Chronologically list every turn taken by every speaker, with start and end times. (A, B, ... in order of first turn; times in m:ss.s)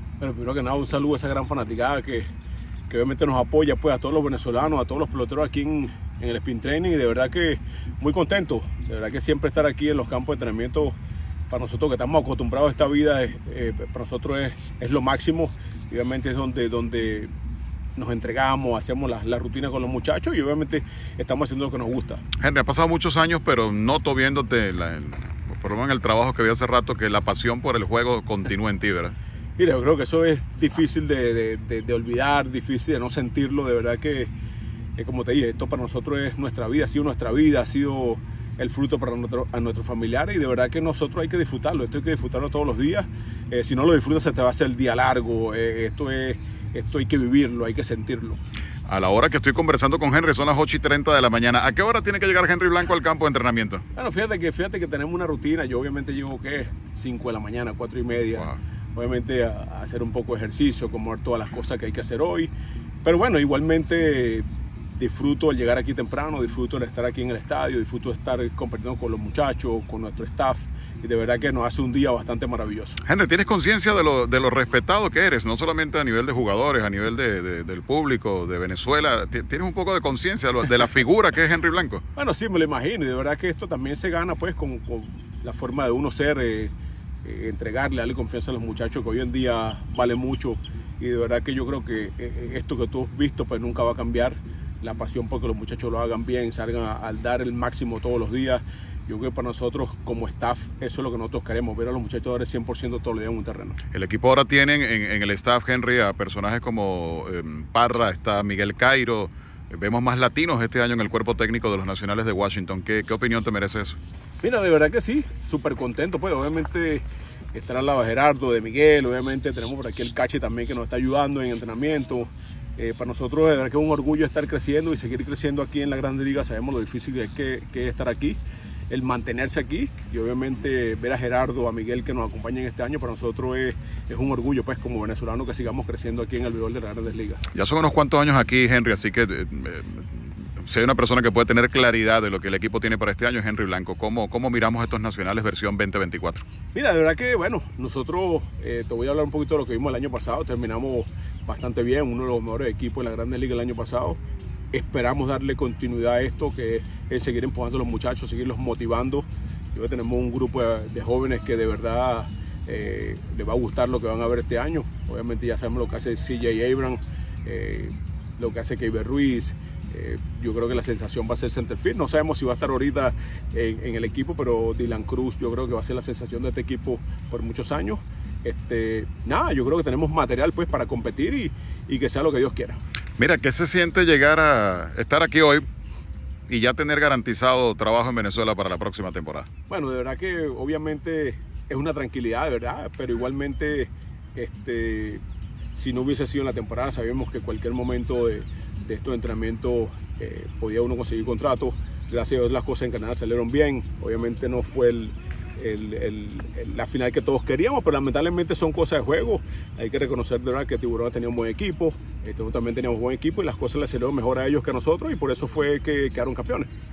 0:00.2-0:02.3 A
0:02.9-0:11.0 A
0:11.5-0:17.3 A
0:18.0-0:22.2 A
0:22.4-0:29.2 B
0:29.6-0:34.3 A
0:35.0-0:48.4 A
0:48.9-0:53.8 B
0:54.0-1:02.5 A
1:03.0-1:04.5 A
1:05.0-1:13.0 A
1:13.0-1:22.0 B
1:22.2-1:26.7 A
1:27.2-1:43.8 A
1:43.9-1:54.0 B
1:54.4-2:08.4 A
2:08.9-2:17.4 A
2:17.5-2:26.4 B
2:26.7-2:34.2 A
2:34.7-3:02.8 A
3:03.2-3:05.7 B
3:06.5-3:09.5 B
3:09.7-3:36.7 A